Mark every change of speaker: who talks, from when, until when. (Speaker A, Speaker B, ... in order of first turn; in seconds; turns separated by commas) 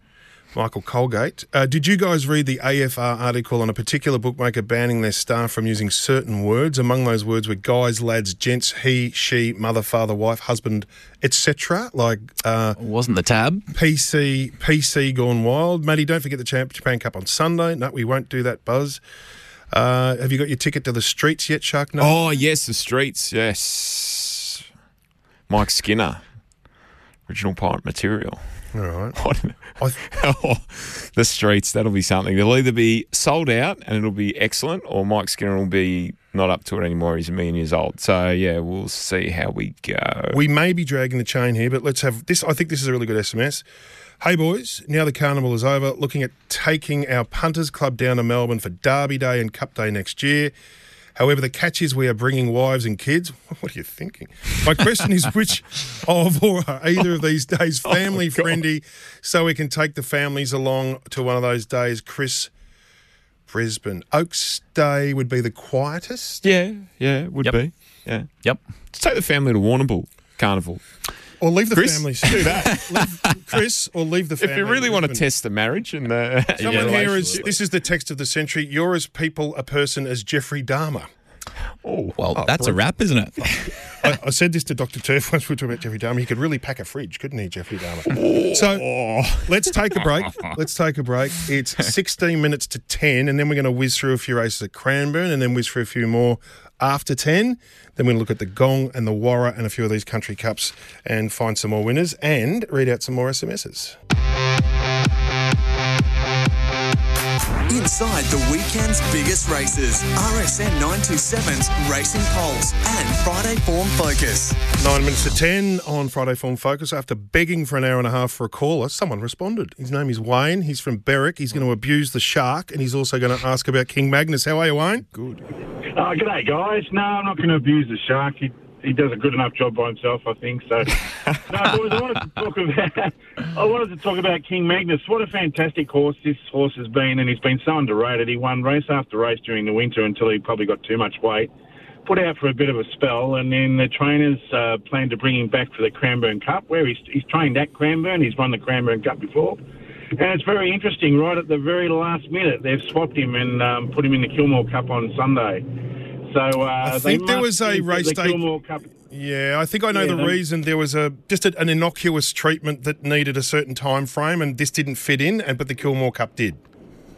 Speaker A: 0.5-12.8, Speaker B: 12.8-13.7, Speaker A: 13.7-19.0, Speaker A: 19.7-22.1, Speaker C: 22.0-24.6, Speaker C: 25.5-26.2, Speaker C: 27.3-28.4, Speaker A: 28.7-29.2, Speaker C: 29.1-40.4, Speaker A: 40.3-43.6, Speaker A: 44.2-50.5, Speaker A: 51.1-62.5, Speaker C: 58.0-58.6, Speaker A: 63.5-66.4, Speaker C: 66.4-68.3, Speaker C: 68.9-70.8, Speaker A: 71.4-75.2, Speaker C: 71.7-73.0, Speaker C: 74.4-77.5, Speaker B: 76.6-77.4, Speaker A: 76.6-81.1, Speaker C: 81.8-82.2, Speaker B: 82.2-83.7, Speaker A: 82.3-82.8, Speaker A: 83.4-88.9, Speaker C: 88.1-89.7, Speaker A: 89.4-104.0, Speaker D: 107.7-114.6, Speaker A: 114.8-125.0, Speaker C: 125.1-125.4, Speaker E: 125.9-131.0, Speaker E: 131.5-141.5, Speaker E: 142.0-149.6, Speaker E: 150.2-155.6, Speaker E: 156.3-158.8, Speaker A: 156.8-158.4, Speaker A: 159.1-166.6, Speaker E: 159.9-160.4